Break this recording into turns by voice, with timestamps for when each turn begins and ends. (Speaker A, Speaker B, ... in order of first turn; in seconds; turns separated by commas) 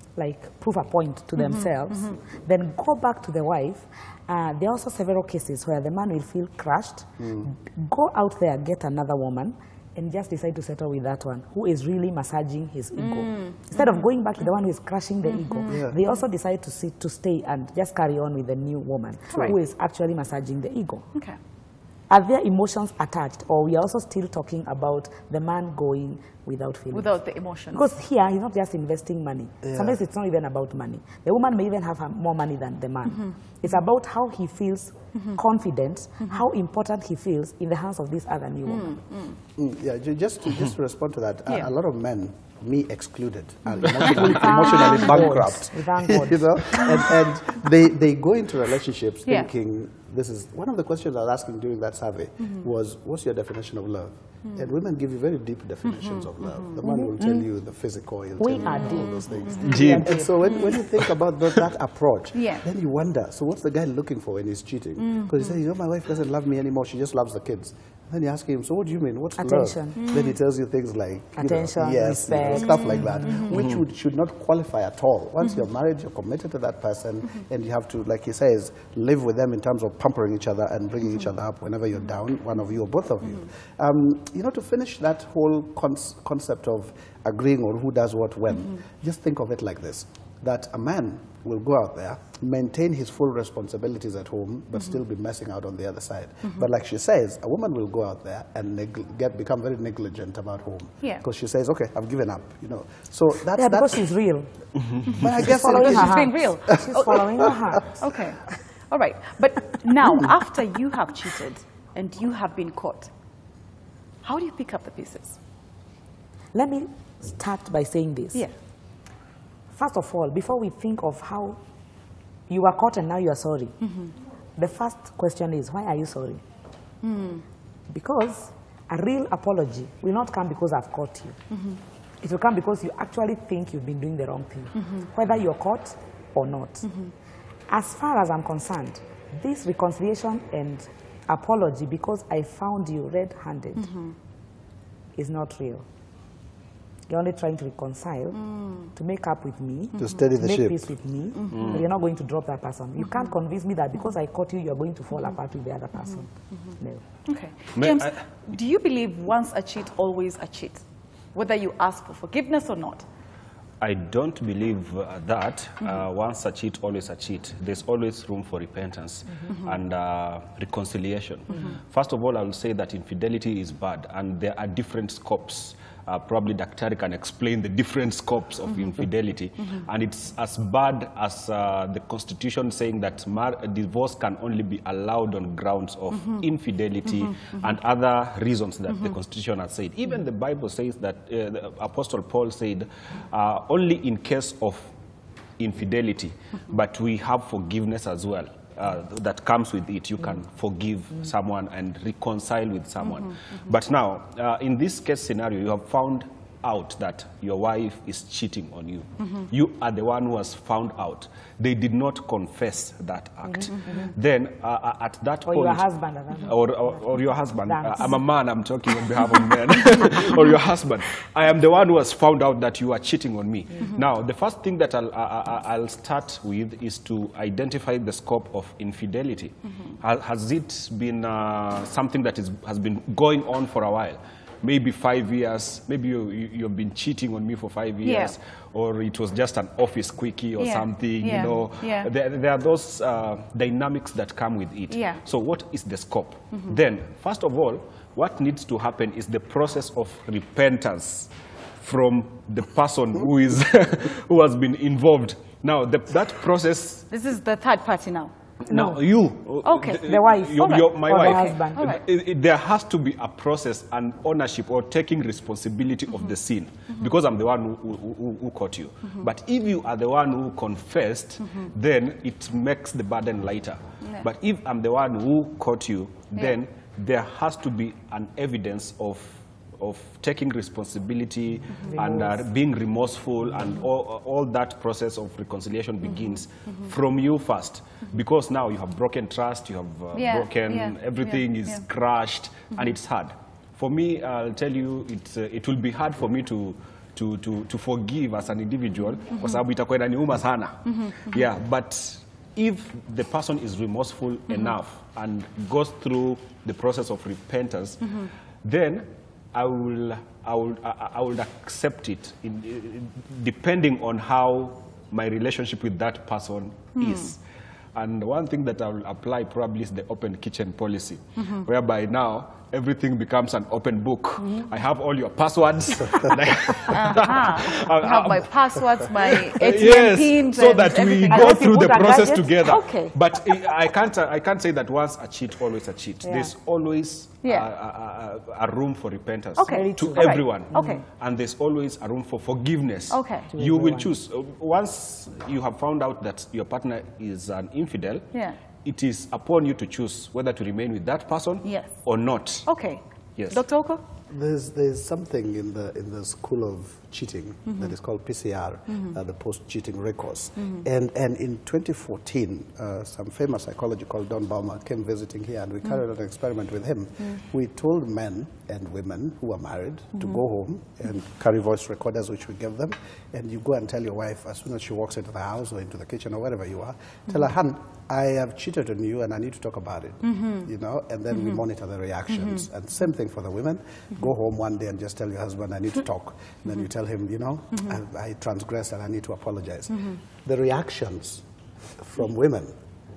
Speaker A: 0.1-21.0, Speaker B: 7.2-7.5, Speaker C: 13.3-13.8, Speaker B: 15.7-16.0, Speaker C: 19.3-19.6, Speaker A: 22.1-27.1, Speaker C: 26.9-27.8, Speaker A: 27.7-39.0, Speaker B: 29.6-30.0, Speaker B: 39.5-104.1, Speaker A: 44.0-46.8, Speaker A: 56.8-57.4, Speaker A: 58.4-60.5, Speaker D: 59.6-60.2, Speaker C: 62.3-62.6, Speaker A: 69.4-70.0, Speaker A: 71.4-73.5, Speaker A: 103.5-104.5, Speaker B: 105.2-107.7, Speaker C: 105.2-113.1, Speaker A: 105.5-107.9, Speaker C: 114.2-115.4, Speaker A: 116.5-118.5, Speaker A: 119.7-121.6, Speaker A: 122.5-123.8, Speaker A: 124.6-126.4, Speaker C: 127.0-127.4, Speaker A: 127.9-131.4, Speaker A: 132.2-136.9, Speaker A: 137.7-143.9, Speaker A: 145.2-145.8, Speaker A: 147.1-157.0, Speaker B: 150.0-150.9, Speaker D: 151.5-151.8, Speaker C: 157.2-163.1, Speaker D: 157.8-158.2, Speaker D: 163.8-194.9, Speaker D: 195.6-215.9, Speaker A: 213.5-213.9, Speaker A: 215.4-218.2, Speaker D: 216.4-257.1, Speaker C: 238.0-238.3, Speaker C: 240.6-242.1, Speaker C: 244.9-245.2, Speaker C: 257.1-258.3, Speaker D: 258.7-317.4, Speaker A: 258.7-259.0, Speaker C: 259.6-260.0, Speaker A: 260.0-262.0, Speaker C: 260.6-262.0, Speaker C: 290.1-291.8, Speaker D: 317.9-348.3, Speaker C: 326.8-333.1, Speaker A: 331.3-332.6, Speaker A: 336.2-336.5, Speaker C: 337.4-337.7, Speaker C: 339.6-341.0, Speaker A: 339.7-341.0, Speaker C: 343.1-343.5, Speaker A: 343.5-344.1, Speaker D: 348.8-352.7, Speaker C: 351.6-351.9, Speaker C: 352.6-354.0, Speaker D: 353.4-353.6, Speaker B: 354.3-391.4, Speaker B: 392.0-392.7